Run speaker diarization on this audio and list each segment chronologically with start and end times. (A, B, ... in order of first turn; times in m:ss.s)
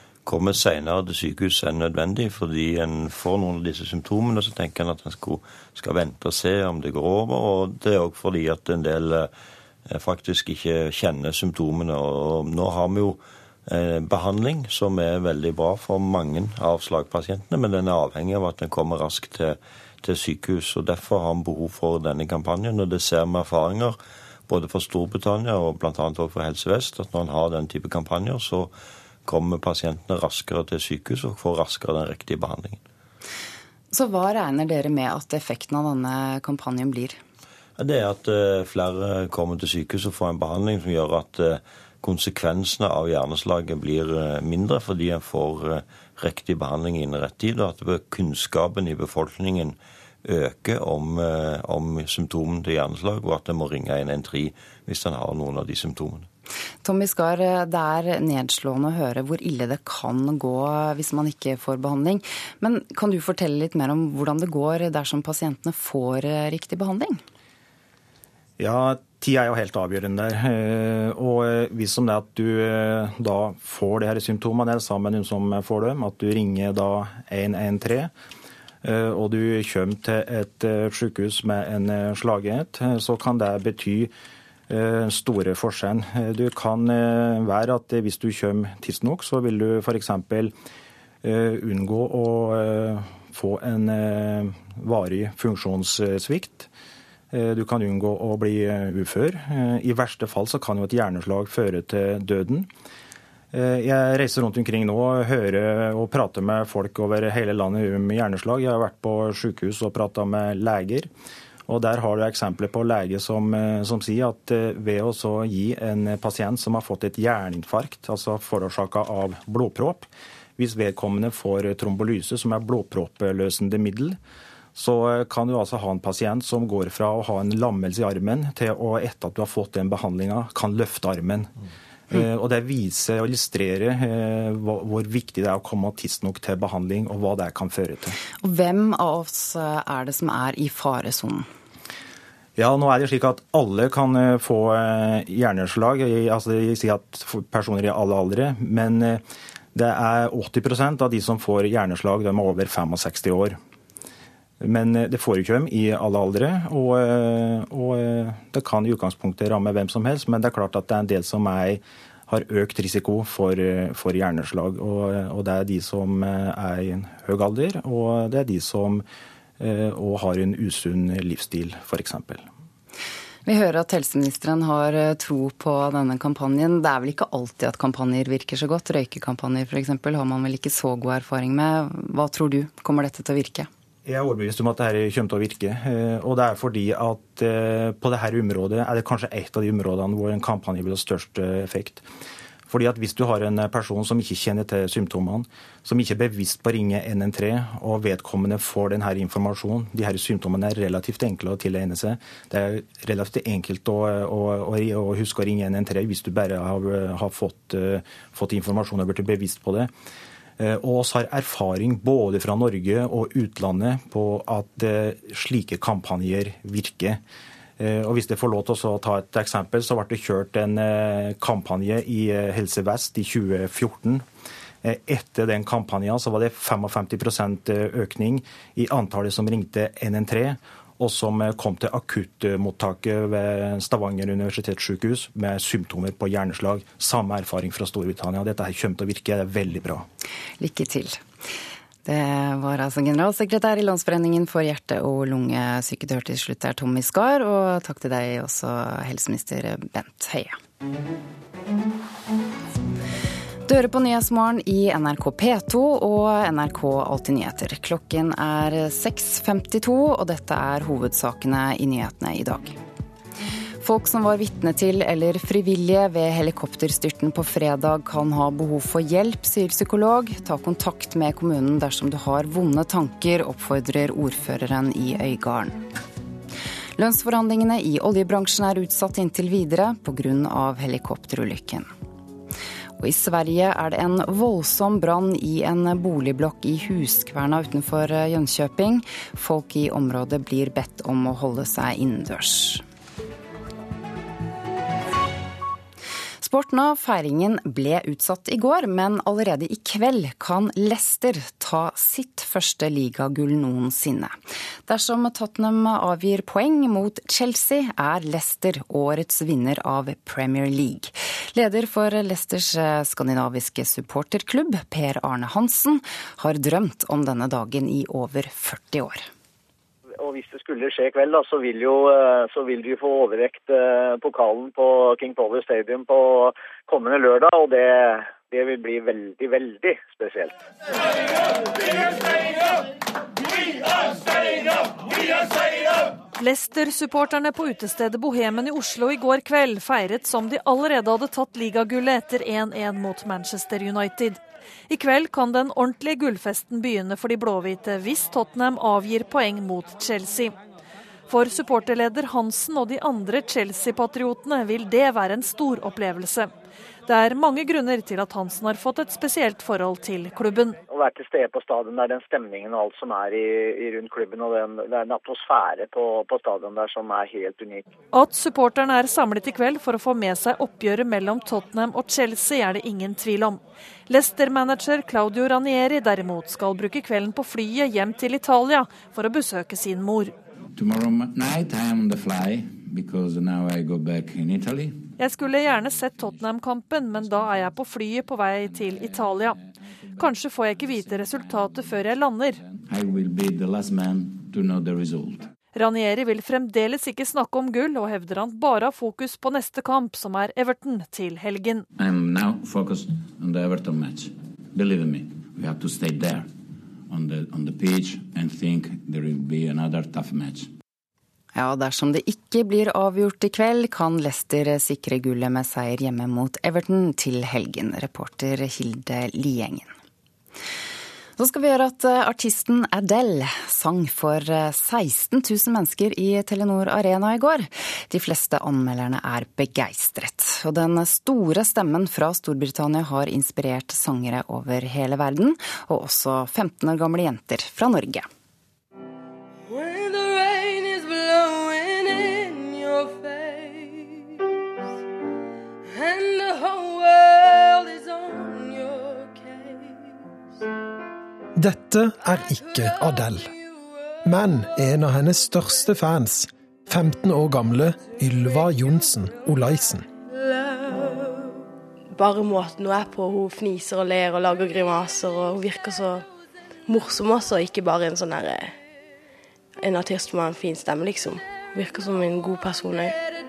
0:00.2-0:09.3 A
0:09.9-0:32.8 A
0:33.9-0:37.2 B
0:37.8-0:56.3 A
0:56.8-1:07.2 B
1:08.6-1:18.1 C
1:18.8-1:24.1 C
1:24.7-1:30.5 C
1:31.2-1:36.7 C
1:37.3-1:42.7 C
1:43.5-1:51.1 C
1:51.7-2:04.2 C
2:04.8-2:11.5 C
2:12.1-2:18.2 C
2:18.4-2:21.5 B
2:22.6-2:29.2 C
2:29.7-2:33.6 C
2:34.6-2:49.0 C
2:49.6-2:52.5 C
2:53.5-3:03.7 B
3:04.0-3:12.0 C
3:12.7-3:29.9 C
3:30.6-3:37.2 C
3:37.8-3:44.2 C
3:44.8-4:00.1 C
4:00.6-4:01.2 B
4:02.0-4:10.6 B
4:13.7-4:22.8 B
4:23.8-4:35.8 B
4:37.0-4:41.9 B
4:43.0-4:52.8 B
4:56.4-5:19.2 B
5:20.2-5:30.5 D
5:36.3-5:50.6 E
5:51.3-5:56.5 E
5:57.1-6:00.8 E
6:00.9-6:07.9 D
6:08.1-6:20.4 E
6:20.8-6:25.0 F
6:25.2-6:29.6 E
6:28.8-6:29.5 F
6:30.2-6:32.6 E
6:30.8-6:31.6 F
6:32.6-6:35.5 F
6:35.7-6:41.9 E
6:42.0-6:46.5 F
6:47.1-6:50.7 F
6:51.6-6:59.9 B
7:01.4-7:18.3 B
7:19.7-7:24.1 G
7:25.9-7:29.8 G
7:31.6-7:33.5 H
7:34.2-7:40.1 H
7:42.2-7:46.2 G
7:46.9-7:48.8 G
7:49.8-7:53.2 G